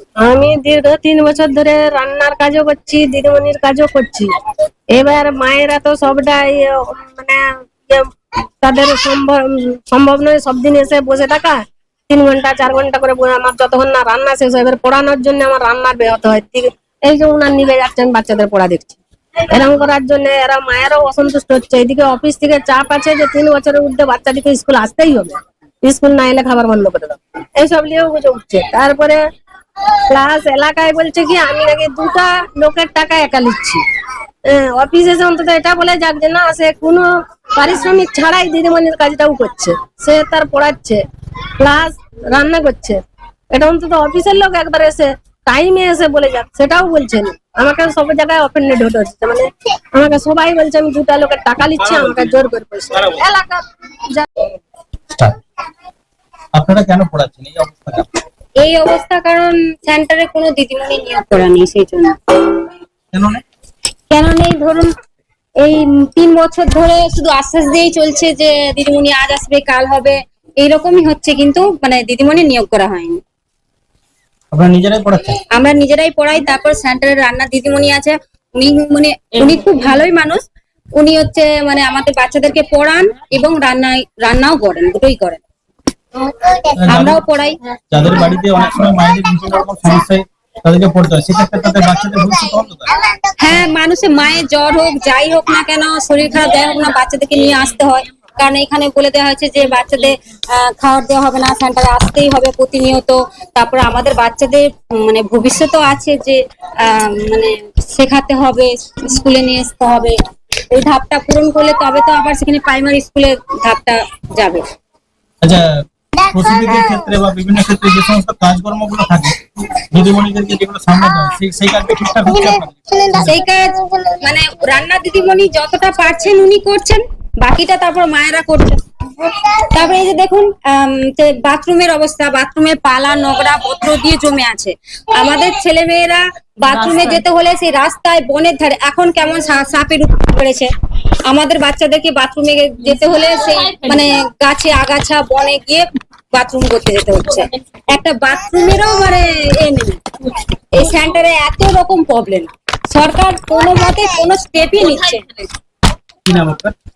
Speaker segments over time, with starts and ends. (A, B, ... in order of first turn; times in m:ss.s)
0:00.2-0:04.3 A
0:04.9-0:08.1 A
0:08.6-0:19.0 A
0:19.5-0:29.2 A
0:30.1-0:33.8 A
0:34.5-0:41.0 A
0:41.6-0:54.5 A
0:51.8-0:52.4 B
0:56.5-0:58.1 B
0:58.6-1:02.6 C
1:03.1-1:03.4 B
1:04.1-1:04.9 C
1:05.6-1:13.2 C
1:14.5-1:15.3 B
1:15.5-1:20.4 C
1:21.0-1:25.4 C
1:26.5-1:27.6 C
1:26.8-1:27.2 B
1:27.9-1:32.9 B
1:33.3-1:50.1 C
1:50.7-1:54.6 C
1:55.4-1:55.7 B
1:56.2-2:03.4 B
2:03.0-2:20.7 C
2:21.3-2:35.5 C
2:36.2-2:36.7 B